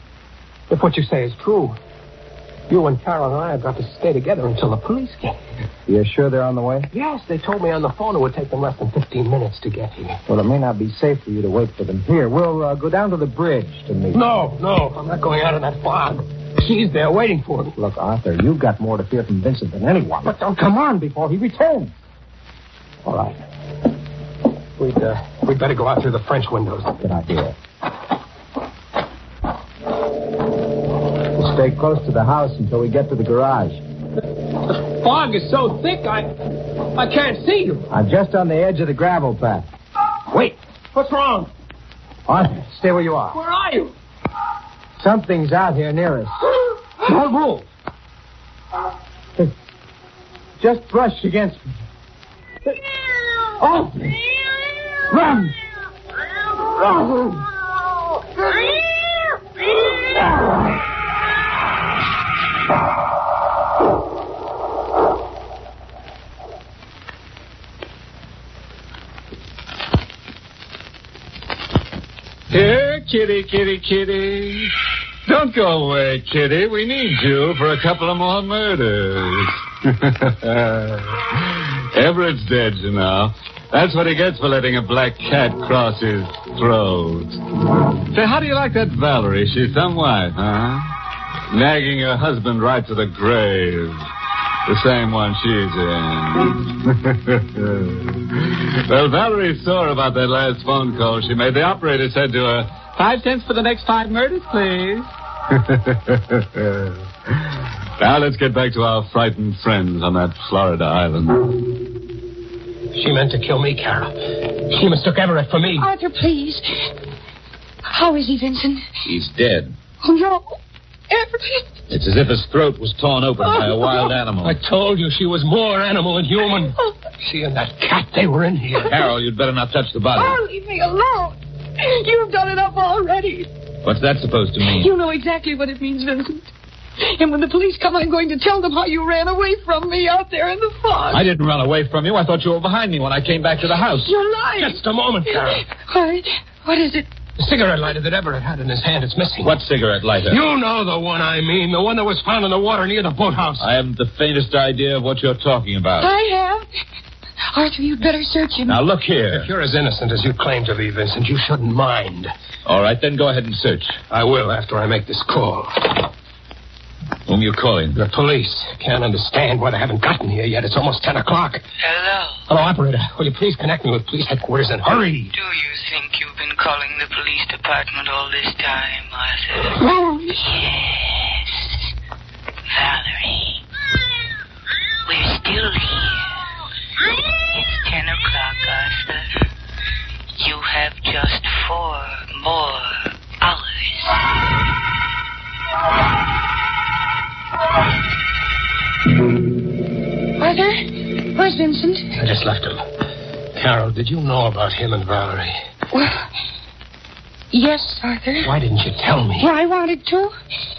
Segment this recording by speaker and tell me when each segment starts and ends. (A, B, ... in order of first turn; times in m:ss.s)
0:00.7-0:01.8 A
0:02.7-0:05.4 A
0:05.9-0:06.9 B
0:06.9-0:10.2 A
0:10.3-0:14.3 B
0:14.1-0:17.8 A
0:17.8-0:22.0 B
0:23.1-0:23.4 B
0:24.8-0:27.0 A
0:27.0-0:27.6 B
0:31.3-0:33.8 B
0:34.6-0:37.9 A
0:37.9-0:39.7 B
0:40.3-0:41.5 A
0:42.3-0:43.4 B
0:43.3-0:43.9 A
0:45.0-0:46.4 B
0:47.0-0:47.6 B
0:50.6-0:51.7 B
0:53.6-0:54.2 B
0:55.1-0:55.5 B
0:56.8-0:57.3 B
1:12.5-1:14.7 C
1:15.3-1:27.4 C
1:28.1-1:30.9 C
1:31.5-1:34.1 C
1:34.7-1:47.0 C
1:48.0-1:51.6 C
1:52.9-1:55.9 A
1:55.8-1:56.9 D
1:57.9-1:58.8 D
1:59.1-1:59.8 E
2:00.0-2:00.6 D
2:01.1-2:01.7 D
2:01.9-2:04.6 E
2:03.4-2:04.1 D
2:04.4-2:08.9 A
2:08.9-2:10.4 E
2:10.1-2:13.5 D
2:13.8-2:14.9 E
2:14.6-2:16.5 D
2:17.0-2:21.3 D
2:21.1-2:24.1 E
2:24.0-2:27.1 D
2:24.6-2:25.6 A
2:27.4-2:29.6 A
2:29.4-2:30.4 E
2:30.3-2:33.7 A
2:33.6-2:36.1 E
2:36.0-2:36.7 D
2:37.5-2:38.8 D
2:38.7-2:39.5 E
2:39.3-2:42.3 A
2:42.6-2:44.0 E
2:44.1-2:46.1 A
2:47.3-2:48.0 E
2:48.0-2:51.6 A
2:51.8-2:52.4 F
2:52.5-2:55.3 A
2:55.3-2:59.8 F
3:00.4-3:01.8 F
3:02.7-3:03.6 F
3:05.1-3:06.3 F
3:07.5-3:09.3 F
3:10.4-3:14.3 F
3:20.4-3:22.2 D
3:22.2-3:22.8 A
3:23.6-3:25.6 A
3:25.9-3:26.2 D
3:27.5-3:28.6 D
3:28.4-3:29.5 A
3:29.4-3:30.3 D